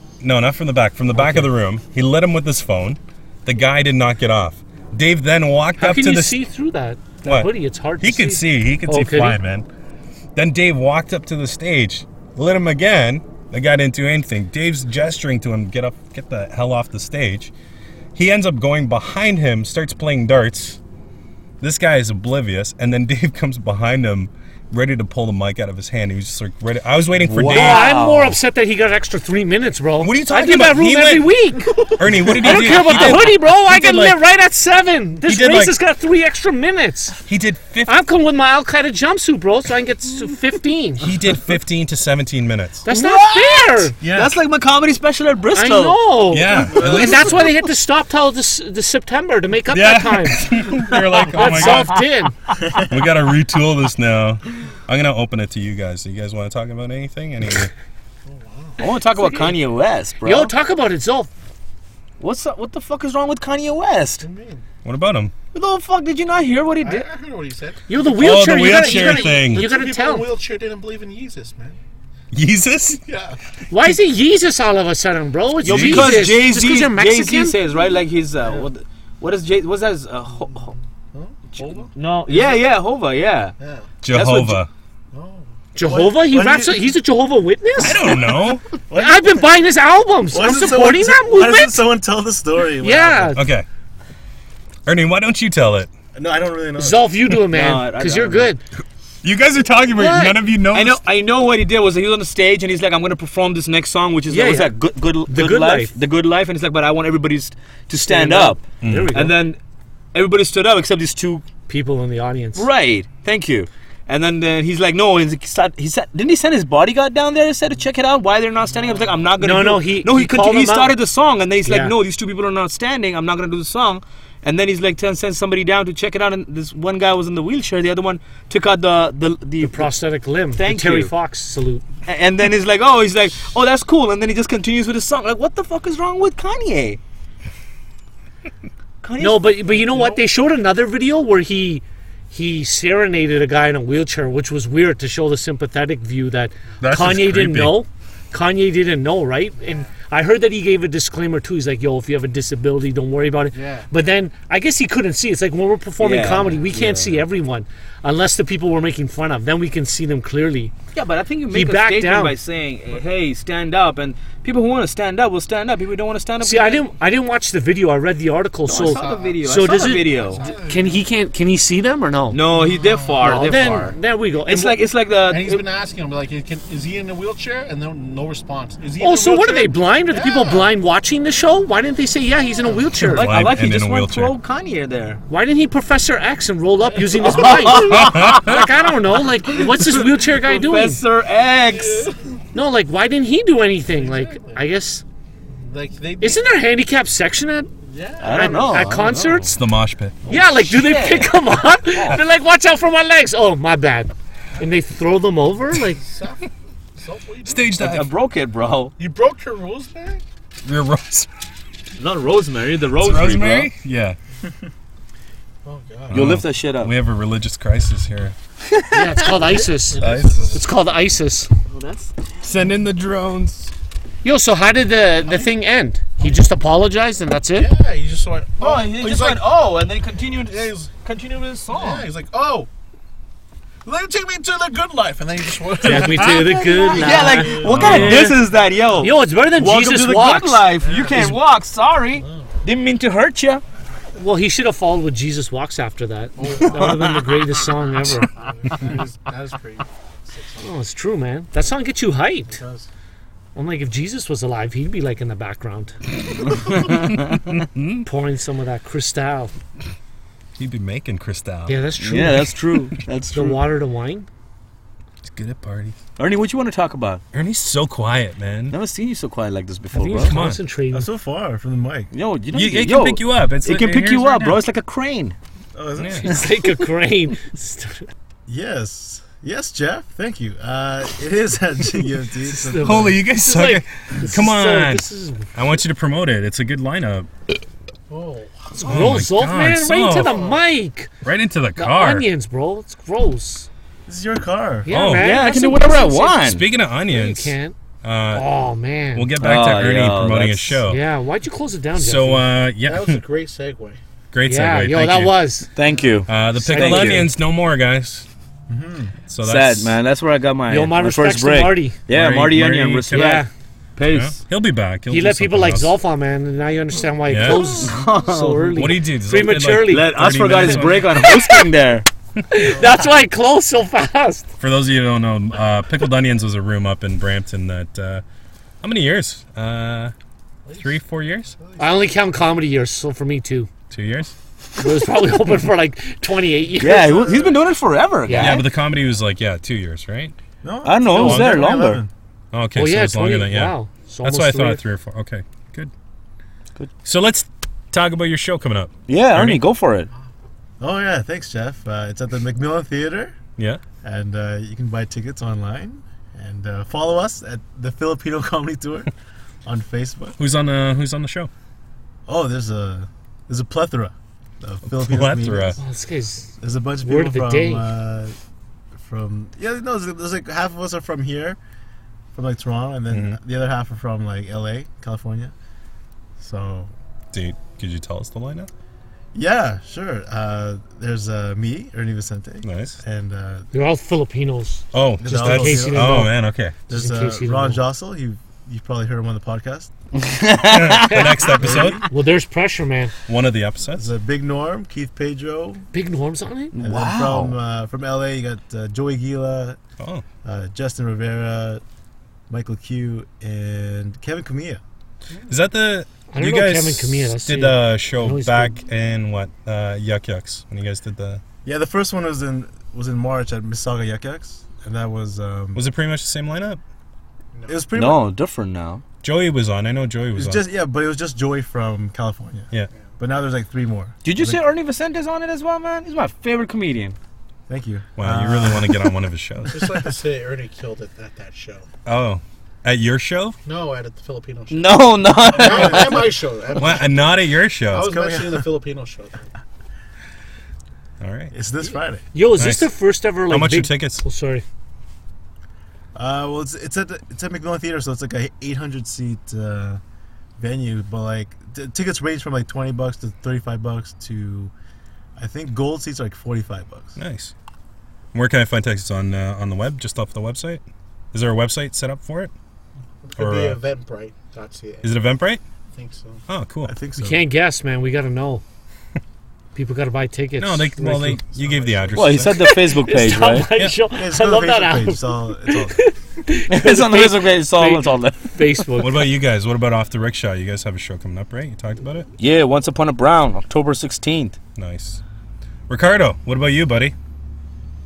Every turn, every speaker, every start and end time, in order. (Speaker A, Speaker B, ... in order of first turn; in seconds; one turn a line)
Speaker A: 0.2-6.4
Speaker B: 1.1-1.5
Speaker B: 5.8-9.4
Speaker A: 7.2-9.7
Speaker A: 10.3-17.5
Speaker A: 18.1-20.8
Speaker A: 21.6-27.9
Speaker C: 27.1-28.4
Speaker B: 27.4-37.2
Speaker A: 30.0-31.4
Speaker A: 31.9-34.2
Speaker C: 32.6-33.2
Speaker A: 35.2-35.8
Speaker A: 37.3-38.0
Speaker B: 37.9-41.1
Speaker A: 41.0-42.8
Speaker B: 42.8-44.0
Speaker C: 42.9-46.0
Speaker A: 44.0-44.4
Speaker B: 45.5-50.8
Speaker A: 46.3-47.4
Speaker C: 46.7-47.4
Speaker D: 46.8-47.3
Speaker A: 49.7-51.9
Speaker B: 51.3-52.4
Speaker C: 51.4-51.9
Speaker A: 52.9-57.7
Speaker E: 58.2-58.9
Speaker C: 58.8-60.5
Speaker B: 59.2-59.5
Speaker B: 60.2-61.3
Speaker C: 62.2-64.3
Speaker E: 64.2-64.6
Speaker A: 64.8-65.3
Speaker C: 65.5-67.0
Speaker E: 66.8-71.8
Speaker B: 67.9-70.3
Speaker A: 68.2-69.7
Speaker A: 72.3-73.0
Speaker E: 73.0-73.4
Speaker B: 73.7-77.6
Speaker A: 75.6-76.3
Speaker C: 75.6-80.7
Speaker E: 78.4-78.7
Speaker E: 81.1-82.6
Speaker C: 81.5-83.5
Speaker E: 83.6-83.9
Speaker A: 84.0-84.7
Speaker C: 84.1-84.6
Speaker E: 85.1-85.5
Speaker B: 85.7-88.2
Speaker D: 85.8-86.8
Speaker A: 87.8-88.7
Speaker D: 88.8-89.4
Speaker B: 88.9-91.8
Speaker D: 90.3-93.4
Speaker B: 92.8-93.5
Speaker A: 93.3-93.7
Speaker A: 94.8-95.9
Speaker D: 96.1-97.1
Speaker B: 96.8-98.6
Speaker C: 97.5-98.5
Speaker A: 99.2-101.0
Speaker B: 99.9-100.4
Speaker C: 100.7-109.6
Speaker B: 104.3-104.7
Speaker B: 105.3-105.9
Speaker B: 107.9-109.4
Speaker A: 108.8-109.1
Speaker C: 110.1-111.4
Speaker B: 111.7-112.7
Speaker C: 112.5-129.9
Speaker E: 118.9-119.2
Speaker B: 119.4-120.9
Speaker B: 121.6-121.9
Speaker B: 129.6-131.8
Speaker C: 130.6-131.1
Speaker C: 132.1-137.0
Speaker C: 139.0-139.5
Speaker B: 139.2-160.7
Speaker E: 139.7-140.2
Speaker A: 146.8-147.8
Speaker E: 149.6-149.9
Speaker E: 153.5-153.9
Speaker C: 156.0-157.2
Speaker C: 160.9-166.8
Speaker B: 161.5-162.3
Speaker B: 166.4-172.4
Speaker C: 168.7-170.4
Speaker E: 168.7-171.0
Speaker C: 172.3-173.9
Speaker E: 172.5-173.5
Speaker B: 173.2-174.8
Speaker C: 174.4-175.6
Speaker E: 175.3-180.7
Speaker B: 179.0-183.3
Speaker A: 182.9-184.3
Speaker C: 183.1-185.2
Speaker B: 185.3-191.0
Speaker E: 186.8-188.1
Speaker C: 187.2-188.7
Speaker A: 187.9-188.7
Speaker C: 189.5-192.1
Speaker E: 191.7-192.4
Speaker B: 192.5-195.0
Speaker E: 193.9-194.6
Speaker E: 195.5-196.4
Speaker B: 196.2-197.7
Speaker E: 197.9-199.1
Speaker C: 198.2-199.4
Speaker B: 198.2-199.6
Speaker A: 199.4-200.3
Speaker C: 200.3-201.3
Speaker B: 200.3-206.0
Speaker C: 201.9-202.2
Speaker E: 206.0-207.7
Speaker A: 207.4-208.1
Speaker C: 207.8-208.9
Speaker E: 209.0-210.2
Speaker A: 210.6-211.3
Speaker C: 212.0-213.7
Speaker A: 213.0-214.2
Speaker E: 215.6-216.4
Speaker A: 216.1-218.3
Speaker C: 216.1-216.9
Speaker C: 218.7-219.2
Speaker B: 218.9-221.5
Speaker E: 219.1-220.8
Speaker A: 220.0-220.6
Speaker C: 221.7-222.1
Speaker A: 222.4-223.7
Speaker B: 224.2-227.7
Speaker E: 225.2-225.5
Speaker E: 227.5-229.4
Speaker C: 228.6-232.1
Speaker E: 230.5-230.9
Speaker E: 231.7-232.7
Speaker E: 233.8-238.7
Speaker B: 235.8-238.5
Speaker C: 235.8-243.6
Speaker A: 237.7-238.3
Speaker B: 239.0-241.4
Speaker E: 240.8-241.4
Speaker E: 242.2-242.5
Speaker B: 244.2-248.3
Speaker E: 246.4-247.2
Speaker C: 246.8-247.5
Speaker E: 248.3-250.7
Speaker B: 250.6-252.6
Speaker E: 252.5-252.9
Speaker B: 253.5-256.0
Speaker C: 256.3-257.5
Speaker A: 257.4-258.1
Speaker B: 258.0-259.5
Speaker A: 260.6-261.9
Speaker B: 261.7-262.6
Speaker C: 262.0-263.6
Speaker B: 263.3-264.3
Speaker A: 265.2-266.0
Speaker C: 266.2-267.2
Speaker A: 267.3-268.8
Speaker C: 268.7-270.4
Speaker B: 269.9-271.1
Speaker A: 270.2-270.6
Speaker D: 270.9-272.1
Speaker C: 272.1-275.4
Speaker A: 272.5-274.6
Speaker D: 275.8-276.4
Speaker A: 276.0-276.3
Speaker B: 276.1-278.1
Speaker D: 278.5-283.2
Speaker B: 282.4-285.5
Speaker A: 282.8-287.3
Speaker E: 288.1-289.1
Speaker B: 288.8-291.1
Speaker A: 288.8-290.4
Speaker E: 290.2-290.6
Speaker A: 291.2-292.3
Speaker B: 291.8-293.7
Speaker D: 294.1-294.9
Speaker B: 294.9-296.5
Speaker A: 294.9-295.3
Speaker C: 295.2-296.6
Speaker A: 296.4-298.5
Speaker B: 297.1-297.8
Speaker B: 298.3-299.3
Speaker A: 299.1-301.0
Speaker C: 299.4-300.8
Speaker B: 300.9-302.5
Speaker A: 302.0-303.2
Speaker E: 302.8-304.0
Speaker A: 304.3-305.3
Speaker B: 304.4-305.7
Speaker C: 305.8-307.3
Speaker E: 305.9-306.1
Speaker A: 306.3-308.2
Speaker D: 308.7-309.2
Speaker A: 309.3-310.0
Speaker C: 309.4-313.4
Speaker B: 310.7-312.0
Speaker A: 312.1-313.4
Speaker B: 313.1-313.5
Speaker C: 313.9-314.4
Speaker A: 314.1-315.9
Speaker B: 315.1-320.3
Speaker A: 317.3-317.7
Speaker C: 317.4-319.0
Speaker A: 318.7-321.2
Speaker C: 319.8-322.1
Speaker B: 321.1-321.7
Speaker B: 322.5-324.5
Speaker A: 324.6-328.2
Speaker A: 328.8-330.1
Speaker A: 330.8-331.5
Speaker E: 331.6-331.9
Speaker B: 331.8-333.7
Speaker A: 333.9-334.3
Speaker B: 334.8-337.2
Speaker C: 336.8-338.6
Speaker B: 338.2-338.7
Speaker A: 338.3-340.4
Speaker D: 340.6-342.1
Speaker C: 340.8-342.0
Speaker B: 341.1-341.5
Speaker A: 341.2-341.7
Speaker A: 342.5-345.9
Speaker B: 342.7-344.8
Speaker A: 347.0-349.6
Speaker C: 349.1-350.1
Speaker D: 350.8-353.4
Speaker A: 353.6-353.8
Speaker D: 354.0-359.1
Speaker D: 359.6-360.4
Speaker A: 360.4-361.5
Speaker D: 362.2-365.8
Speaker A: 364.9-365.8
Speaker B: 365.8-367.9
Speaker D: 366.6-368.4
Speaker D: 369.0-371.6
Speaker D: 372.3-375.5
Speaker A: 373.1-373.4
Speaker D: 376.4-376.9
Speaker A: 377.3-378.7
Speaker D: 379.3-383.7
Speaker A: 382.6-383.0
Speaker B: 383.7-386.4
Speaker A: 384.9-386.8
Speaker D: 385.2-386.3
Speaker D: 386.9-389.9
Speaker B: 386.9-387.8
Speaker C: 390.1-391.4
Speaker A: 390.6-392.1
Speaker B: 391.0-393.1
Speaker D: 391.6-392.0
Speaker A: 393.3-394.1
Speaker D: 393.9-395.8
Speaker B: 395.9-396.7
Speaker C: 396.7-397.6
Speaker D: 396.8-399.8
Speaker A: 400.0-400.2
Speaker D: 400.4-401.8
Speaker D: 402.5-404.8
Speaker E: 405.3-405.6
Speaker A: 405.5-411.4
Speaker B: 406.3-408.8
Speaker D: 411.6-415.8
Speaker A: 415.7-416.8
Speaker E: 417.5-417.8
Speaker D: 417.7-418.3
Speaker C: 417.9-419.0
Speaker A: 419.2-420.6
Speaker D: 420.3-424.6
Speaker C: 424.2-427.2
Speaker D: 427.7-429.0
Speaker A: 428.2-429.9
Speaker E: 429.7-431.9
Speaker A: 432.1-433.6
Speaker E: 433.6-437.2
Speaker C: 434.7-436.3
Speaker D: 435.5-436.2
Speaker A: 436.8-438.1
Speaker E: 437.9-439.5
Speaker D: 438.0-438.6
Speaker A: 441.2-441.5
Speaker D: 441.5-442.2
Speaker B: 442.3-444.6
Speaker A: 442.6-442.9
Speaker A: 443.5-444.2
Speaker D: 446.1-450.0
Speaker D: 450.6-454.7
Speaker D: 455.4-457.2
Speaker A: 457.2-457.5
Speaker A: 458.3-462.5
Speaker E: 463.2-465.1
Speaker A: 463.4-463.8
Speaker A: 465.0-465.6
Speaker E: 465.9-466.4
Speaker A: 466.5-466.9
Speaker D: 466.8-467.4
Speaker B: 467.2-468.6
Speaker B: 469.7-471.4
Speaker A: 470.6-472.6
Speaker D: 471.6-472.1
Speaker E: 472.0-472.3
Speaker C: 472.1-473.7
Speaker B: 472.6-479.2
Speaker A: 473.7-474.0
Speaker D: 474.1-476.0
Speaker C: 476.7-478.8
Speaker A: 479.0-482.3
Speaker C: 482.4-484.6
Speaker A: 484.8-485.2
Speaker A: 485.9-487.1